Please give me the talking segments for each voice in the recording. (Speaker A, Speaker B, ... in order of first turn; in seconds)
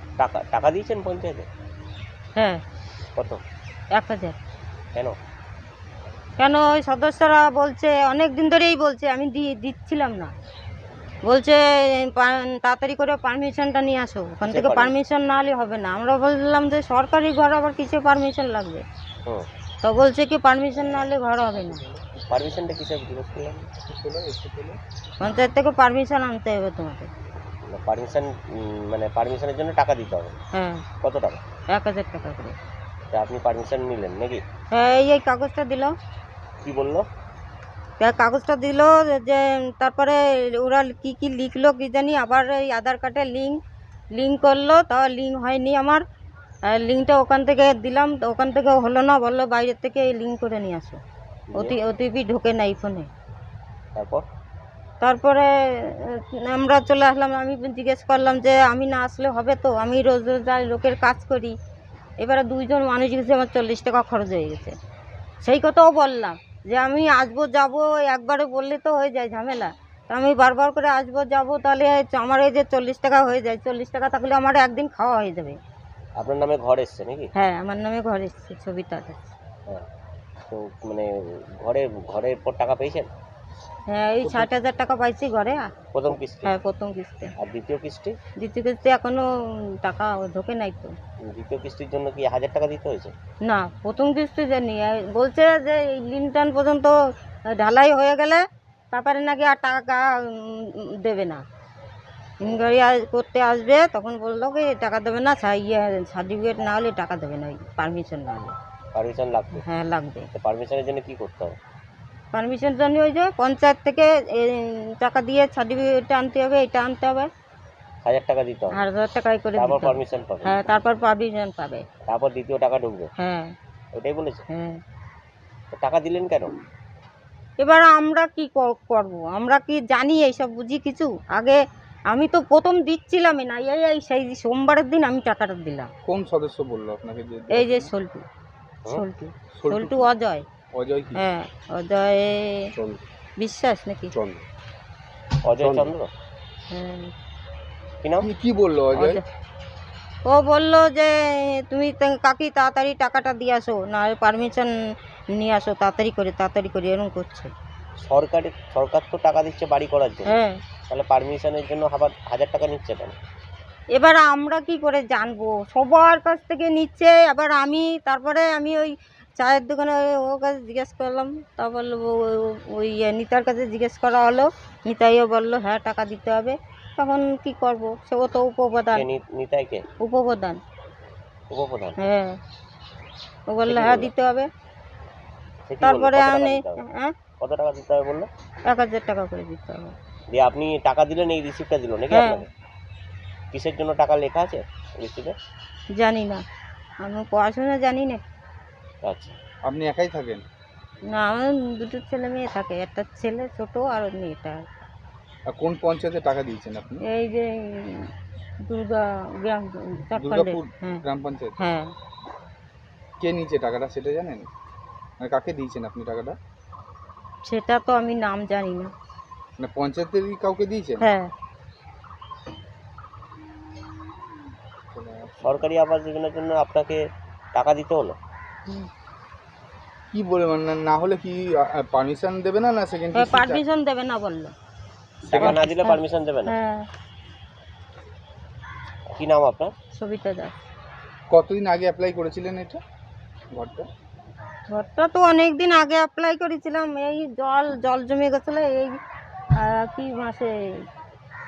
Speaker A: 0.2-1.5, 3.2-3.4, 14.4-14.9, 22.3-23.7, 27.7-30.4, 31.0-31.4, 33.1-34.4, 36.6-37.1, 51.5-51.8, 54.0-54.2, 76.2-77.3, 80.5-83.1, 85.9-86.5, 87.4-88.2, 91.3-93.1, 109.0-109.6, 110.3-111.6, 118.0-118.8, 119.6-120.6, 122.1-123.1, 123.9-124.5, 125.7-126.6, 145.4-146.1, 148.0-148.3, 158.0-163.2, 178.9-179.8, 181.5-182.0, 183.7-184.1, 185.7-186.8, 187.4-188.3, 190.3-192.5, 193.5-195.3, 199.1-199.3, 225.4-227.0, 227.6-228.2, 235.3-236.6, 239.2-239.7
Speaker B: 2.4-2.6, 3.9-4.4, 6.4-10.3, 11.3-18.9, 19.8-21.8, 25.2-27.1, 30.5-30.8, 31.7-32.5, 34.7-35.9, 38.0-43.6, 44.1-46.0, 46.7-51.0, 51.6-53.1, 55.0-61.6, 62.2-64.8, 65.4-75.6, 77.4-79.3, 83.9-85.7, 86.5-87.3, 88.4-91.0, 93.4-97.0, 97.5-101.4, 102.4-108.5, 109.6-110.3, 112.3-117.3, 118.8-121.8, 123.2-123.5, 124.5-124.8, 127.6-131.6, 132.1-135.9, 137.5-138.2, 138.9-140.5, 141.2-142.7, 143.4-144.1, 146.7-147.1, 148.9-149.2, 150.2-154.7, 155.3-157.5, 160.3-160.6, 163.9-179.1, 180.0-180.6, 182.0-182.4, 183.5-184.5, 185.8-187.1, 188.7-189.9, 192.1-192.4, 196.0-196.4, 197.0-198.2, 201.1-204.7, 207.1-208.1, 208.7-211.0, 211.6-211.9, 217.4-218.9, 221.0-221.3, 233.2-234.5, 235.3-236.9, 240.0-240.5, 244.7-249.0, 249.6-250.8
Speaker C: 21.7-22.6, 23.8-24.8, 136.1-137.9, 139.6-140.1, 140.7-141.2, 144.1-144.4, 145.6-145.9, 148.2-149.2, 199.7-200.4, 205.5-207.0, 210.2-211.6, 213.2-214.5, 215.2-216.4, 219.6-221.1, 224.9-225.7, 230.1-233.6, 235.3-235.6, 241.3-242.8, 243.5-243.9